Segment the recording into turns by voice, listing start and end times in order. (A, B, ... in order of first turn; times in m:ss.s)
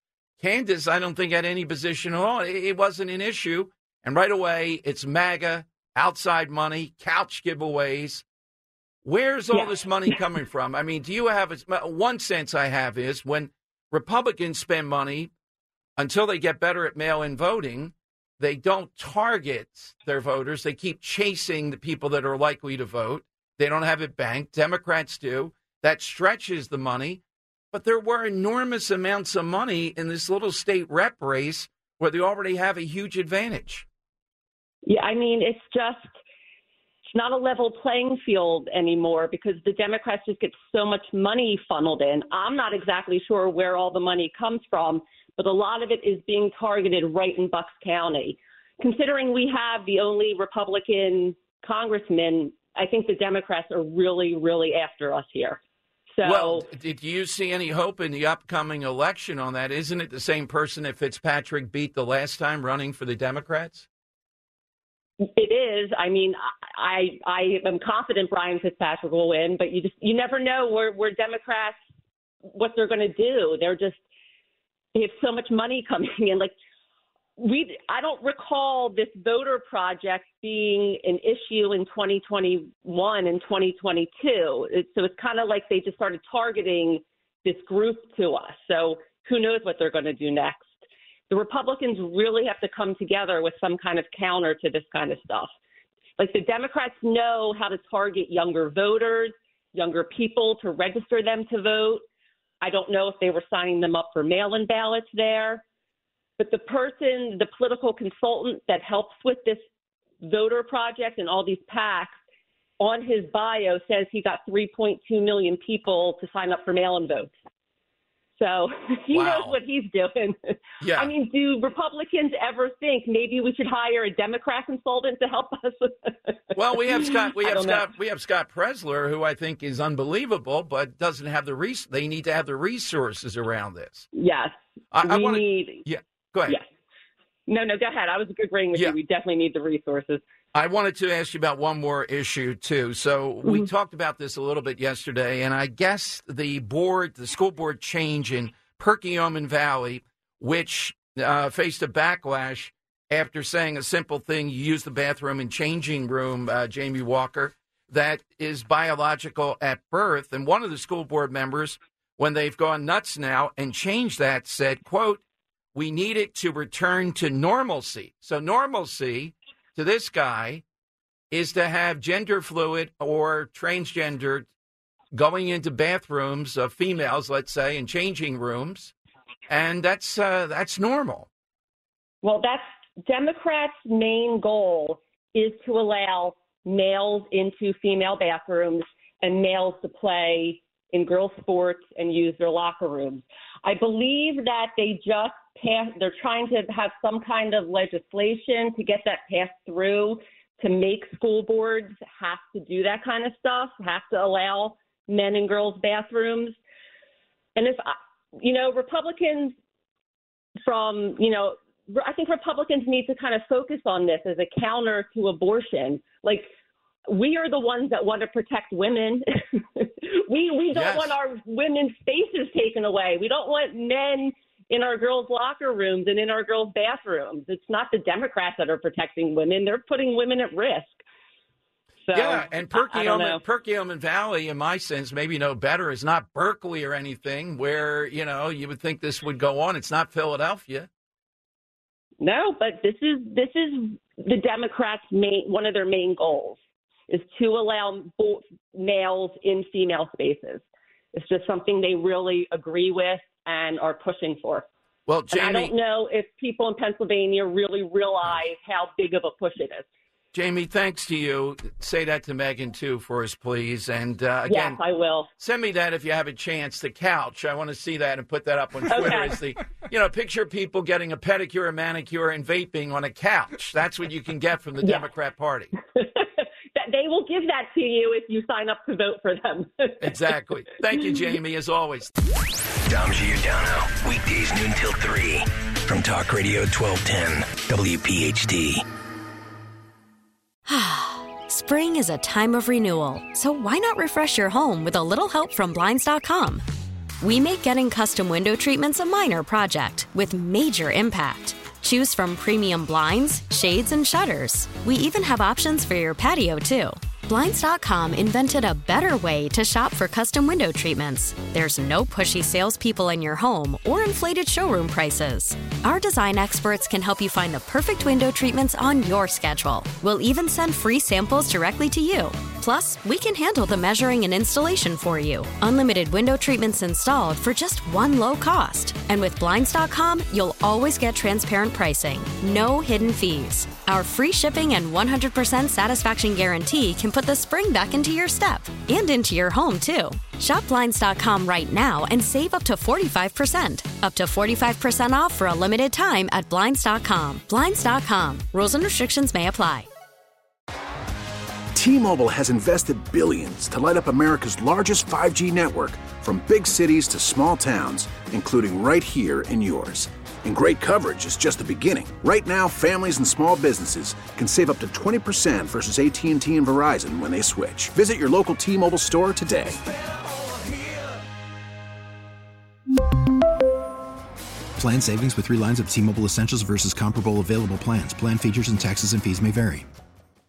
0:00.4-0:08.2 A
0:09.0-0:15.3 A
0:16.0-0:33.8 A
0:34.8-0:36.1 B
0:37.1-0:55.6 B
0:56.1-0:56.6 B
0:56.2-1:03.9 A
1:05.2-1:11.8 B
1:12.5-1:14.0 B
1:14.9-1:16.5 B
1:17.4-1:30.7 B
1:31.3-1:35.5 B
1:36.2-1:42.0 B
1:42.6-1:45.6 B
1:46.4-1:49.6 B
1:50.2-1:52.1 B
1:52.8-1:57.3 B
1:58.4-2:07.9 B
1:59.1-1:59.6 A
2:00.8-2:01.1 A
2:06.5-2:14.1 A
2:14.1-2:14.5 B
2:14.9-2:16.6 A
2:15.0-2:15.8 B
2:17.5-2:20.2 B
2:20.5-2:45.2 A
2:45.7-2:50.6 A
2:51.3-2:54.5 A
2:55.1-2:58.9 A
2:59.5-3:01.3 A
3:02.2-3:26.6 B
3:27.6-3:29.5 B
3:30.6-3:36.5 B
3:37.1-3:51.0 B
3:40.7-3:41.2 A
3:52.1-3:53.4 B
3:52.1-4:00.9 A
4:02.2-4:06.6 B
4:07.1-4:10.6 B
4:11.1-4:14.7 B
4:15.1-4:15.7 A
4:15.3-4:19.8 B
4:20.3-4:24.8 A
4:24.5-4:25.3 B
4:25.4-4:35.8 A
4:28.9-4:29.3 B
4:34.8-4:35.1 B
4:35.9-4:40.2 B
4:40.0-4:42.1 A
4:42.9-4:48.8 C
4:50.7-4:56.6 D
4:57.2-5:49.9 D
5:51.7-6:09.8 E
6:14.8-6:19.8 F